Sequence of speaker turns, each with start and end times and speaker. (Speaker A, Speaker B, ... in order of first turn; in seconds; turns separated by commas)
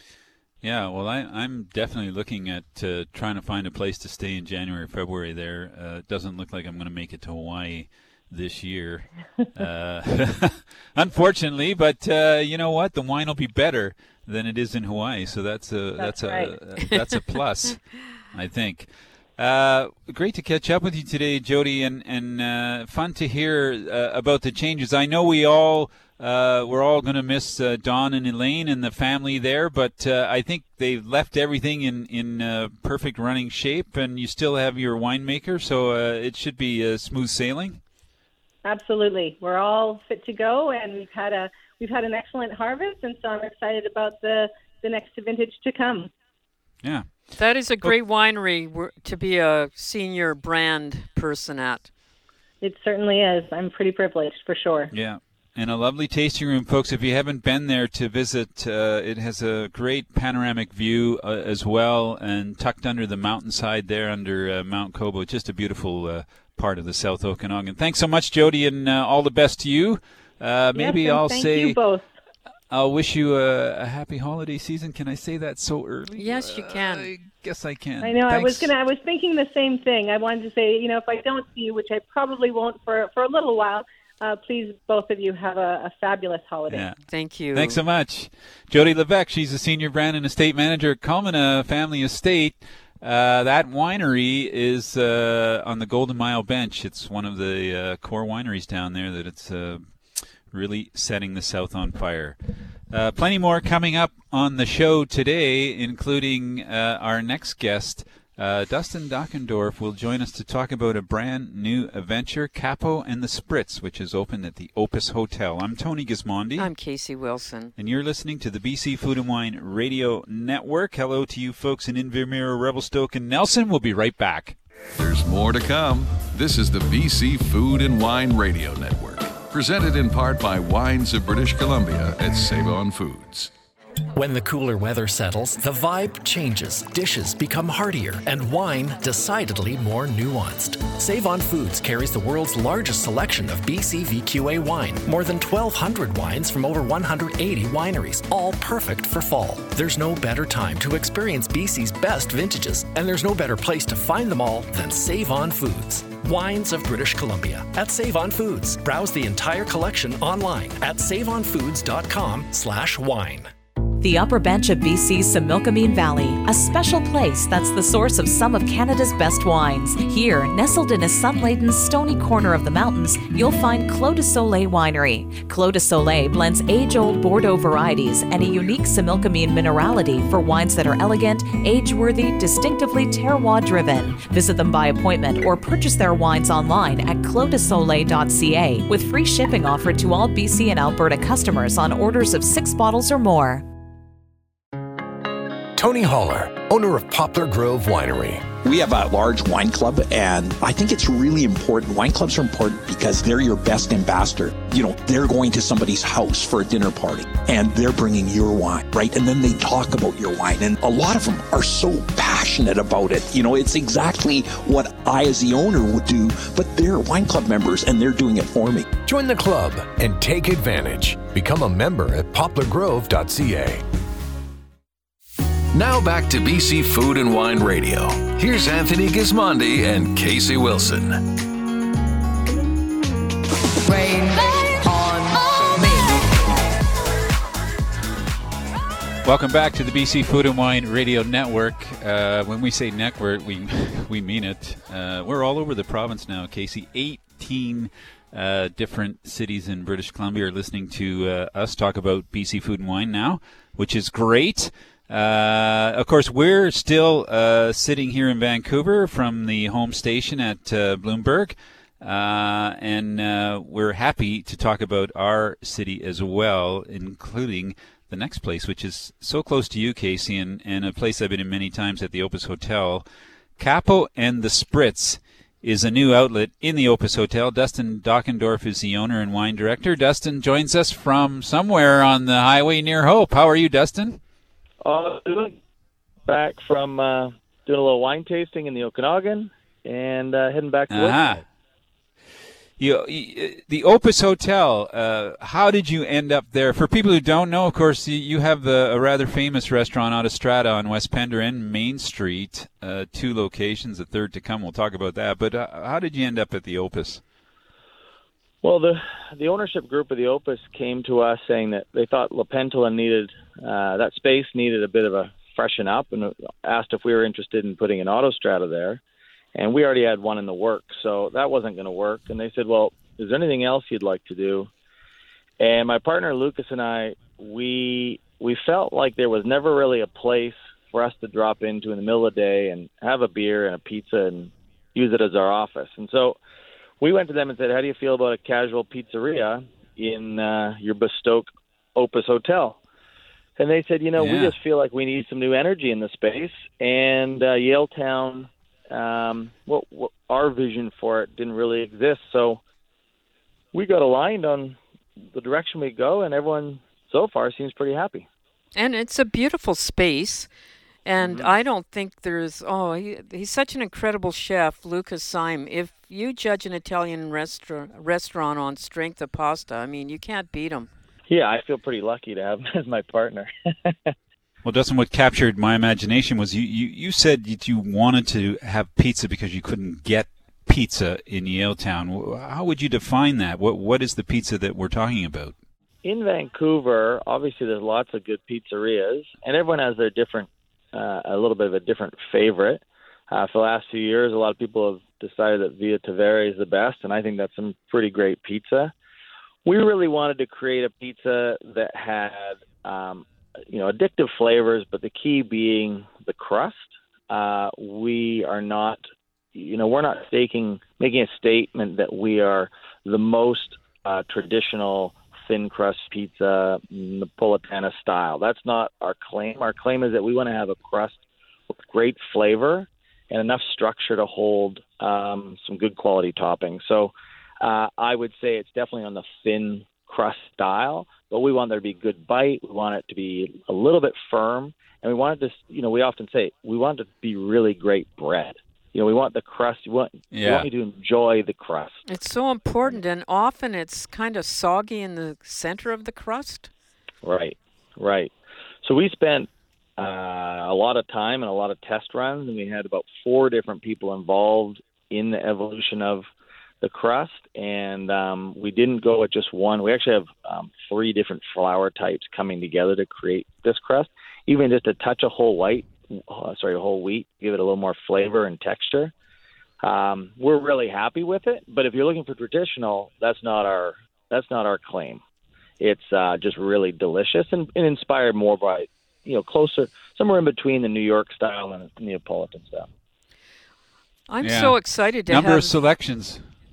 Speaker A: 0.6-37.8, Speaker B: 16.0-16.5, Speaker B: 38.6-46.1, Speaker A: 46.8-47.2, Speaker C: 47.4-51.9, Speaker B: 52.6-54.9, Speaker A: 54.9-71.8, Speaker B: 70.7-72.1, Speaker A: 72.7-78.7, Speaker C: 76.2-77.1, Speaker B: 78.0-86.8, Speaker A: 86.7-87.0, Speaker C: 87.1-87.8, Speaker A: 87.5-102.4, Speaker A: 102.9-116.7, Speaker C: 116.5-117.7, Speaker A: 117.8-124.5, Speaker D: 125.0-133.5, Speaker E: 134.1-163.5, Speaker F: 164.0-193.6, Speaker G: 195.7-198.5, Speaker H: 198.6-218.9, Speaker G: 219.0-223.8, Speaker D: 225.7-231.2, Speaker A: 239.2-273.1, Speaker A: 273.6-284.2, Speaker I: 284.8-285.6, Speaker I: 286.3-291.4, Speaker A: 290.9-291.4, Speaker A: 292.8-307.2, Speaker I: 308.6-319.0, Speaker I: 319.5-324.7, Speaker I: 325.6-336.4, Speaker I: 337.0-342.8, Speaker I: 343.6-352.6, Speaker A: 344.1-344.5, Speaker I: 353.7-358.3, Speaker C: 358.7-360.5, Speaker C: 361.0-370.9, Speaker I: 361.2-361.6, Speaker I: 371.3-374.1, Speaker A: 374.6-385.5, Speaker I: 386.0-398.9, Speaker I: 399.6-421.2, Speaker I: 421.7-442.0, Speaker A: 440.3-440.7, Speaker C: 442.1-446.7, Speaker I: 447.2-448.3, Speaker I: 448.8-456.3, Speaker I: 456.8-469.1, Speaker I: 469.8-475.2, Speaker I: 475.8-482.9, Speaker C: 484.3-485.7, Speaker A: 484.4-486.4